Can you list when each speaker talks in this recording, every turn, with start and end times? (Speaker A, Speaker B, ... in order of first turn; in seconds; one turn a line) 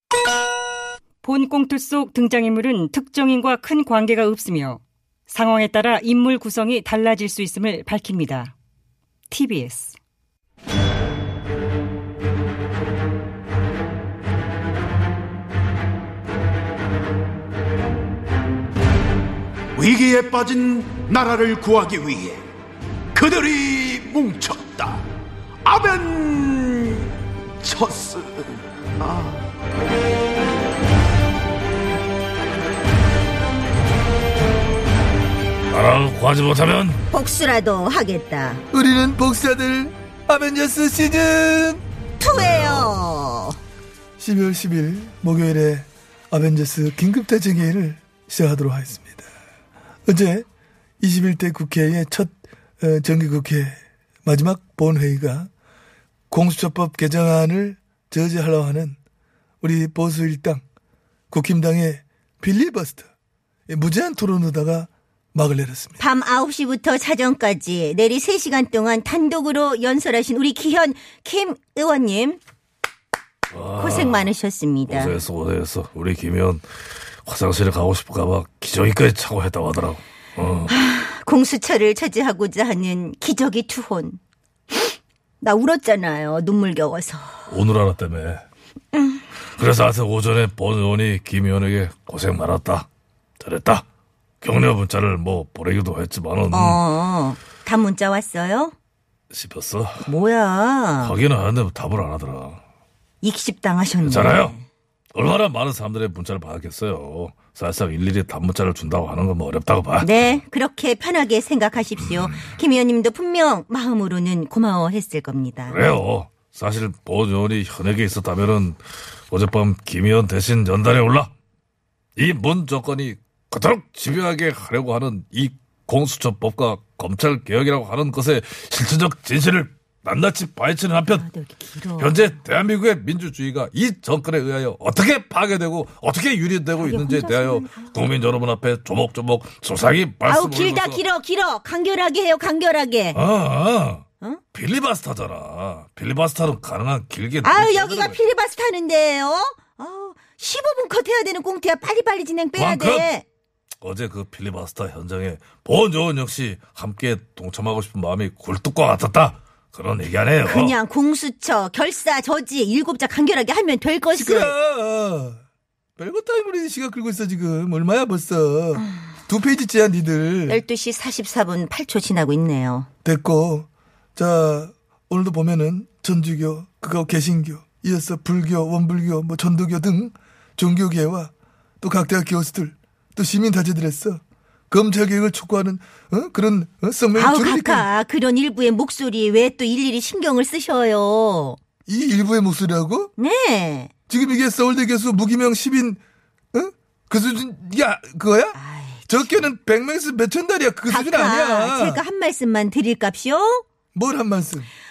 Speaker A: 1.2-8.5
Speaker A: 9.3-10.0
Speaker B: 19.7-22.4
Speaker B: 23.1-25.0
Speaker B: 25.6-29.4
Speaker C: 35.7-37.0
Speaker D: 37.1-38.6
Speaker E: 38.7-41.8
Speaker D: 42.2-43.6
Speaker C: 42.3-43.0
Speaker E: 44.2-49.3
Speaker E: 50.1-50.4
Speaker E: 51.0-55.5
Speaker E: 56.3-59.0
Speaker E: 59.6-60.6
Speaker E: 61.3-63.1
Speaker E: 63.7-66.0
Speaker D: 66.0-72.4
Speaker C: 73.5-74.3
Speaker D: 73.8-75.2
Speaker C: 74.9-76.6
Speaker C: 77.2-80.7
Speaker D: 80.7-84.2
Speaker D: 84.7-87.5
Speaker C: 87.5-88.4
Speaker D: 88.9-89.2
Speaker C: 89.5-92.9
Speaker C: 93.4-93.8
Speaker C: 94.4-96.8
Speaker D: 96.5-98.7
Speaker C: 99.3-100.1
Speaker D: 100.1-101.2
Speaker C: 101.0-102.6
Speaker D: 103.2-104.7
Speaker C: 104.0-104.5
Speaker C: 105.1-110.4
Speaker D: 110.0-115.8
Speaker C: 115.7-121.3
Speaker C: 122.2-131.2
Speaker D: 131.1-132.4
Speaker C: 132.0-141.0
Speaker D: 136.8-138.0
Speaker D: 140.2-143.2
Speaker C: 143.1-148.2
Speaker D: 147.4-153.2
Speaker C: 152.6-153.1
Speaker C: 153.8-160.8
Speaker D: 160.4-164.5
Speaker E: 164.1-165.4
Speaker E: 166.0-170.6
Speaker D: 170.5-172.9
Speaker E: 173.0-187.9
Speaker D: 187.1-191.6
Speaker E: 191.9-193.1
Speaker D: 193.2-193.9
Speaker E: 194.1-196.0
Speaker E: 196.5-198.6
Speaker D: 198.5-199.1
Speaker E: 199.1-202.0
Speaker D: 200.9-203.6
Speaker E: 203.9-204.7